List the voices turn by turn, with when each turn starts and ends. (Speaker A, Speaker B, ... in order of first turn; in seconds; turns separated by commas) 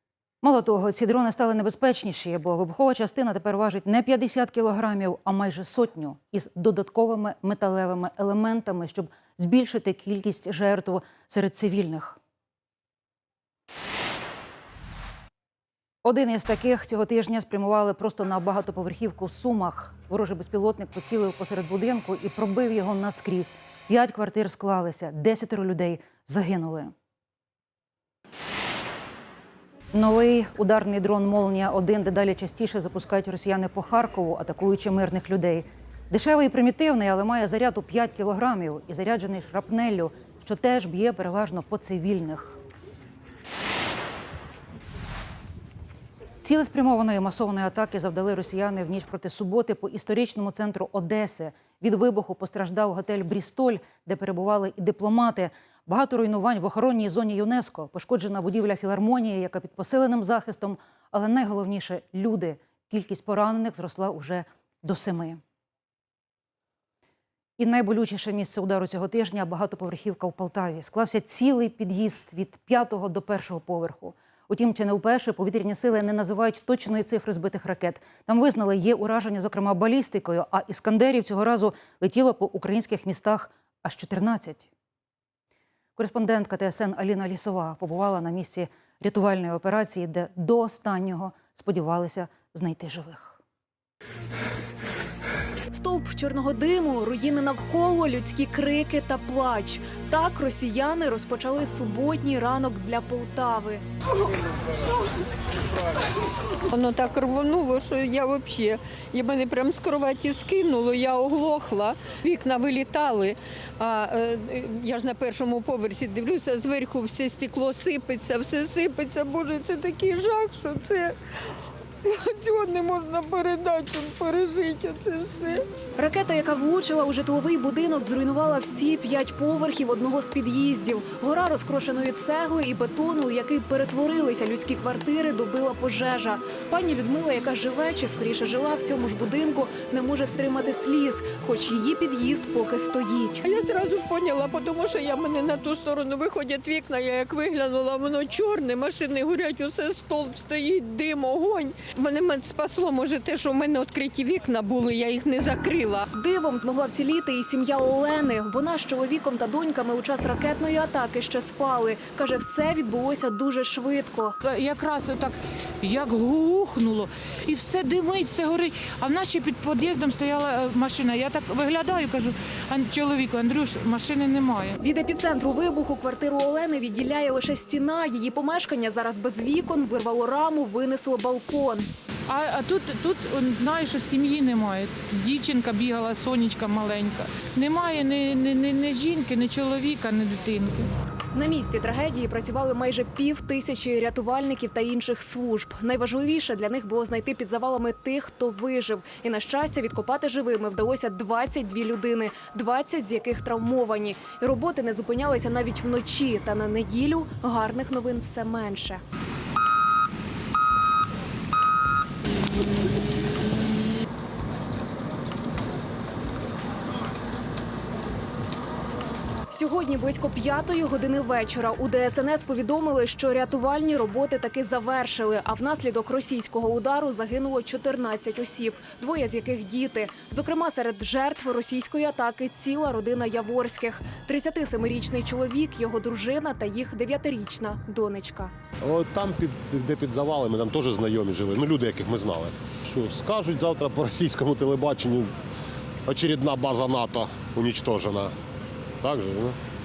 Speaker A: 0.4-12.2, Speaker A: 16.0-26.9, Speaker A: 29.9-42.6, Speaker A: 46.4-65.4, Speaker A: 67.6-84.7, Speaker A: 86.0-93.4, Speaker B: 95.7-103.8, Speaker C: 106.7-121.2, Speaker C: 122.0-125.6, Speaker B: 126.0-143.4, Speaker C: 143.4-156.1, Speaker B: 156.1-164.3, Speaker D: 164.4-174.8, Speaker B: 174.8-181.9, Speaker D: 182.3-190.9, Speaker B: 191.3-209.0, Speaker B: 219.5-238.5, Speaker E: 238.8-245.3, Speaker E: 246.1-248.3, Speaker E: 249.0-249.6